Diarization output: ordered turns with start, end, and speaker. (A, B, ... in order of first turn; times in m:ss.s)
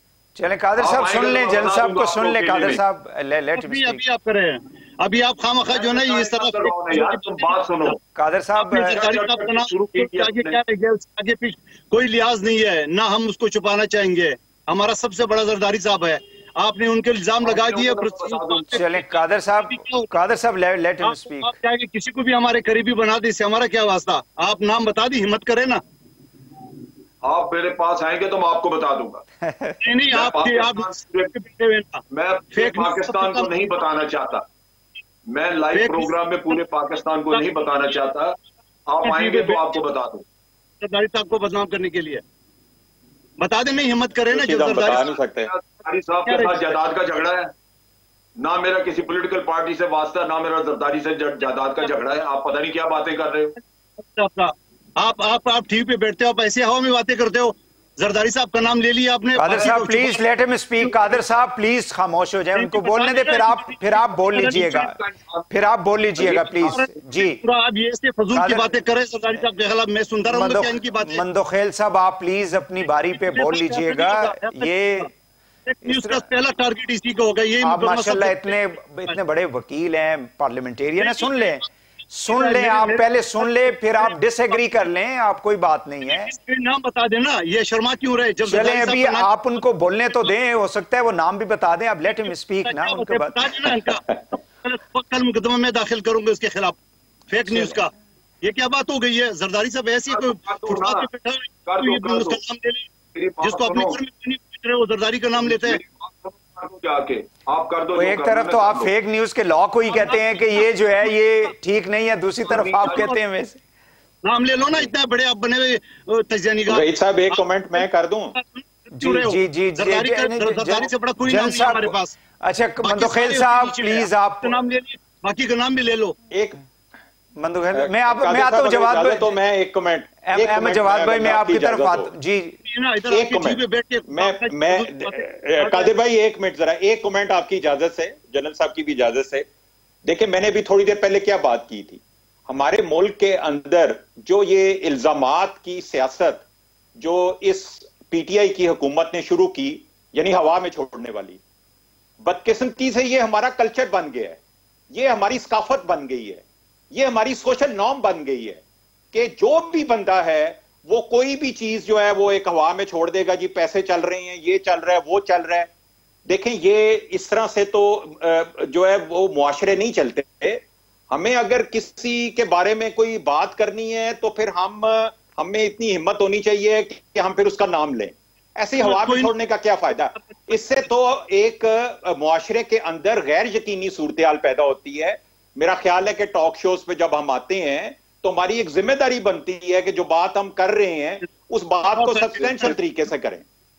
0:00.4-0:04.0 A
0:00.8-0:02.8 B
0:03.6-0:08.0 C
0:05.7-0:08.0 B
0:08.1-0:09.0 A
0:08.6-0:20.1 C
0:08.7-0:10.6 B
0:17.4-0:18.8 B
0:18.7-0:21.5 A
0:21.0-0:25.8 C
0:27.2-0:29.2 B
0:29.4-0:29.9 A
0:29.8-0:33.5 C
0:30.1-0:31.3 B
0:32.1-0:34.4 B
0:35.3-0:38.3 B
0:35.7-0:36.6 C
0:37.3-0:37.6 C
0:38.9-0:40.2 B
0:39.0-0:39.8 C
0:40.8-0:42.2 C
0:43.4-0:45.1 C
0:44.4-0:45.5 D
0:44.8-0:47.5 B
0:46.2-0:46.7 C
0:48.4-0:53.6 B
0:54.0-1:00.2 C
0:59.4-1:04.9 A
1:00.8-1:01.1 C
1:02.5-1:04.9 C
1:04.7-1:05.5 B
1:05.5-1:07.4 A
1:06.2-1:06.8 B
1:06.6-1:11.2 C
1:08.3-1:08.7 A
1:10.2-1:15.1 A
1:13.1-1:15.1 C
1:15.6-1:19.2 C
1:15.8-1:16.2 A
1:17.6-1:26.3 A
1:21.0-1:21.6 C
1:22.3-1:24.6 C
1:26.0-1:29.3 C
1:28.4-1:33.7 A
1:32.6-1:42.9 C
1:40.1-1:41.1 B
1:41.6-1:42.4 B
1:43.1-1:44.0 B
1:43.4-1:45.8 C
1:45.4-1:48.9 B
1:47.9-1:53.6 A
1:49.9-1:51.1 C
1:52.4-1:53.1 B
1:52.8-1:53.1 C
1:54.2-2:02.2 C
1:56.7-1:58.3 D
1:59.0-2:04.6 A
2:02.8-2:06.2 C
2:06.3-2:06.6 D
2:07.4-2:09.4 A
2:07.7-2:12.1 D
2:10.2-2:12.6 A
2:12.6-2:15.9 C
2:13.1-2:19.4 D
2:20.0-2:26.4 D
2:27.0-2:31.4 D
2:32.2-2:34.4 D
2:34.9-2:38.6 D
2:39.1-2:45.7 D
2:46.3-3:13.4 D
2:58.8-2:59.3 C
3:12.0-3:12.8 C